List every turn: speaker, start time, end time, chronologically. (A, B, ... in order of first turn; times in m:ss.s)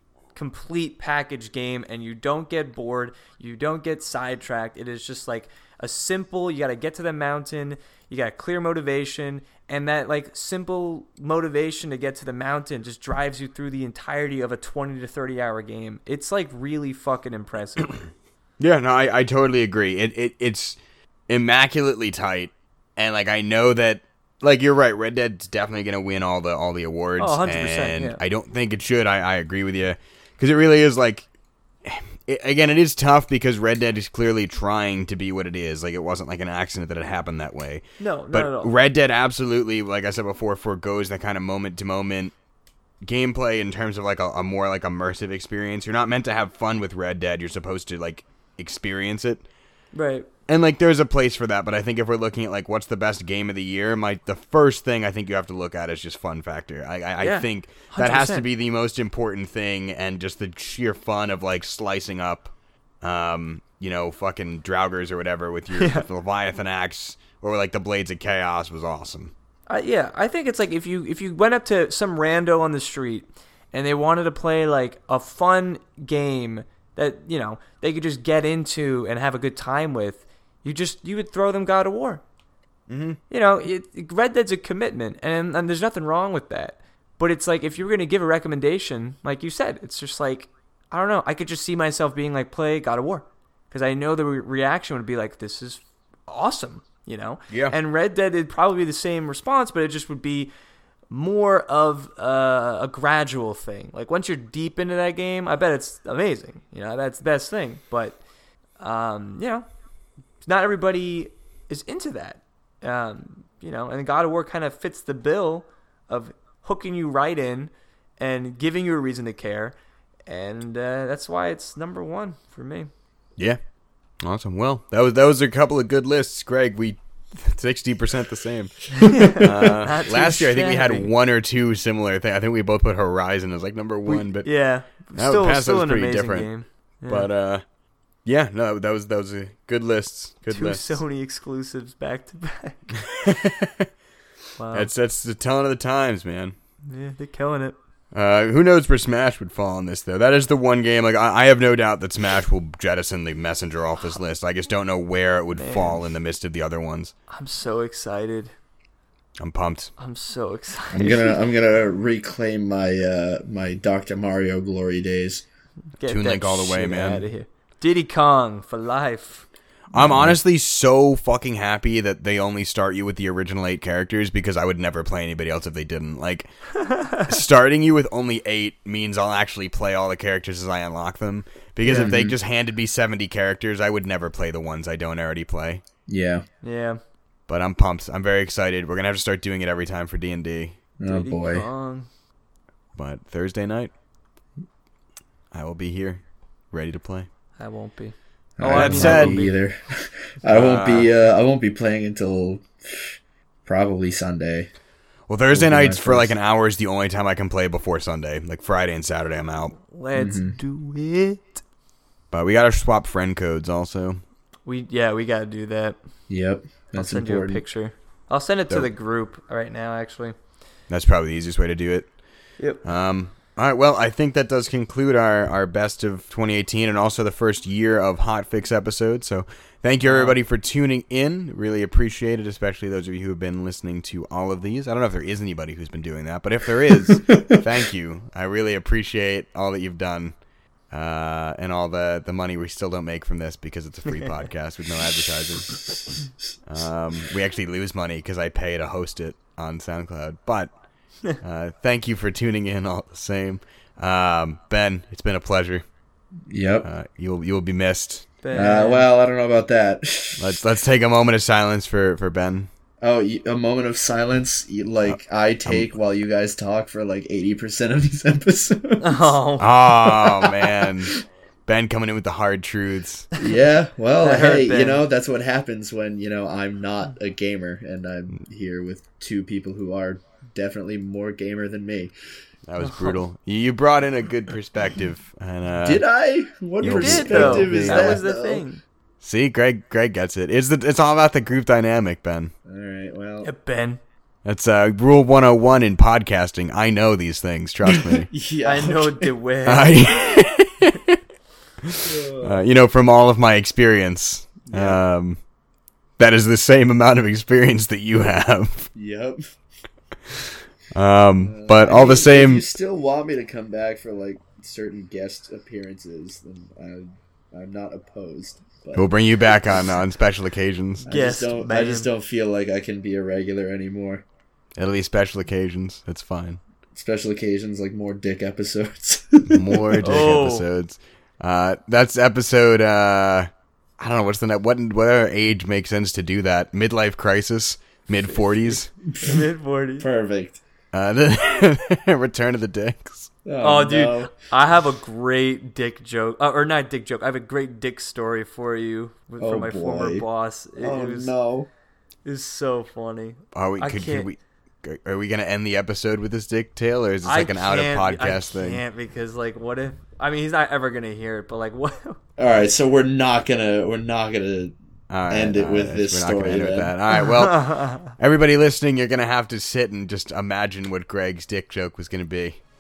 0:00.4-0:18.0 A
0:18.6-0:20.8 B
0:21.3-0:31.3 B
0:27.2-0:28.2 A
0:31.8-0:42.3 B
0:38.0-0:38.7 A
0:43.0-0:49.4 B
0:49.9-0:50.3 A
0:50.5-1:09.3 B
0:57.2-0:58.5 A
1:05.8-1:06.0 A
1:09.7-1:22.2 A
1:22.9-1:23.2 B
1:23.3-1:40.5 A
1:37.5-1:37.8 B
1:41.1-1:48.2 A
1:48.8-1:49.7 A
1:50.4-1:59.7 A
2:00.3-2:02.9 A
2:04.2-2:14.5 B
2:09.0-2:11.1 A
2:09.2-2:09.5 C
2:14.1-2:17.3 A
2:15.2-2:16.5 B
2:17.1-2:17.6 B
2:18.2-2:21.0 B
2:20.5-2:22.8 A
2:23.0-2:23.9 B
2:24.6-2:24.9 A
2:24.7-2:26.6 B
2:26.9-2:27.8 A
2:28.1-2:37.1 B
2:35.6-2:36.0 A
2:37.3-2:38.5 A
2:39.4-2:39.9 B
2:40.0-2:41.4 A
2:40.9-2:45.4 C
2:46.0-2:49.5 A
2:46.1-2:47.3 B
2:49.9-2:50.4 C
2:49.9-2:56.5 B
2:56.8-2:57.3 A
2:57.2-3:05.8 B
3:01.8-3:02.1 A
3:01.9-3:02.4 C
3:06.1-3:06.4 C
3:06.6-3:07.0 A
3:07.5-3:10.8 B
3:11.0-3:11.7 C
3:11.0-3:12.1 A
3:13.0-3:13.9 B
3:15.5-3:17.3 B
3:17.6-3:19.6 A
3:18.6-3:24.7 C
3:18.7-3:19.4 B
3:20.5-3:21.1 B
3:25.3-3:29.8 B
3:25.5-3:26.3 C
3:29.8-3:31.6 A
3:30.2-3:30.6 C
3:32.3-3:34.2 B
3:34.7-3:36.0 A
3:36.3-3:37.6 C
3:37.0-3:40.4 A
3:40.9-3:42.1 B
3:42.8-4:00.4 B
3:50.0-3:50.4 A
3:57.3-3:57.6 C
4:00.9-4:05.9 B
4:06.7-4:10.7 B
4:11.4-4:15.8 B
4:16.5-4:16.9 C
4:16.8-4:18.3 B
4:18.4-4:19.1 A
4:18.5-4:20.6 C
4:20.4-4:22.7 B
4:23.0-4:29.3 C
4:25.1-4:25.9 B
4:29.0-4:29.7 A
4:29.6-4:33.3 B
4:30.3-4:30.9 C
4:33.4-4:42.1 C
4:34.2-4:35.0 A
4:42.7-4:46.0 B
4:42.8-4:43.2 A
4:45.8-4:48.6 C
4:46.8-4:48.2 B
4:46.9-4:48.8 A
4:49.2-4:52.5 B
4:52.7-4:53.5 C
4:53.4-4:54.0 A
4:54.4-4:58.3 B
4:57.9-4:59.3 C
4:58.6-5:00.3 A
4:59.7-5:01.2 B
5:01.8-5:05.4 B
5:02.0-5:02.6 C
5:04.7-5:05.0 C
5:06.2-5:08.9 B
5:09.0-5:09.4 C
5:10.9-5:12.6 B
5:11.4-5:19.1 C
5:19.0-5:21.1 B
5:21.1-5:24.2 C
5:21.1-5:22.1 A
5:24.8-5:26.6 B
5:26.9-5:30.2 C
5:29.5-5:38.9 B
5:30.0-5:30.6 A
5:38.2-5:40.1 A
5:39.1-5:39.5 C
5:40.0-5:40.6 C
5:40.9-5:43.3 B
5:43.4-5:44.4 C
5:43.6-5:51.3 A
5:49.4-5:50.3 C
5:50.8-5:51.7 C
5:52.2-5:54.3 A
5:53.5-5:58.8 B
5:57.2-6:02.2 A
6:02.4-6:04.8 C
6:05.1-6:12.6 B
6:05.3-6:06.9 C
6:07.4-6:08.1 A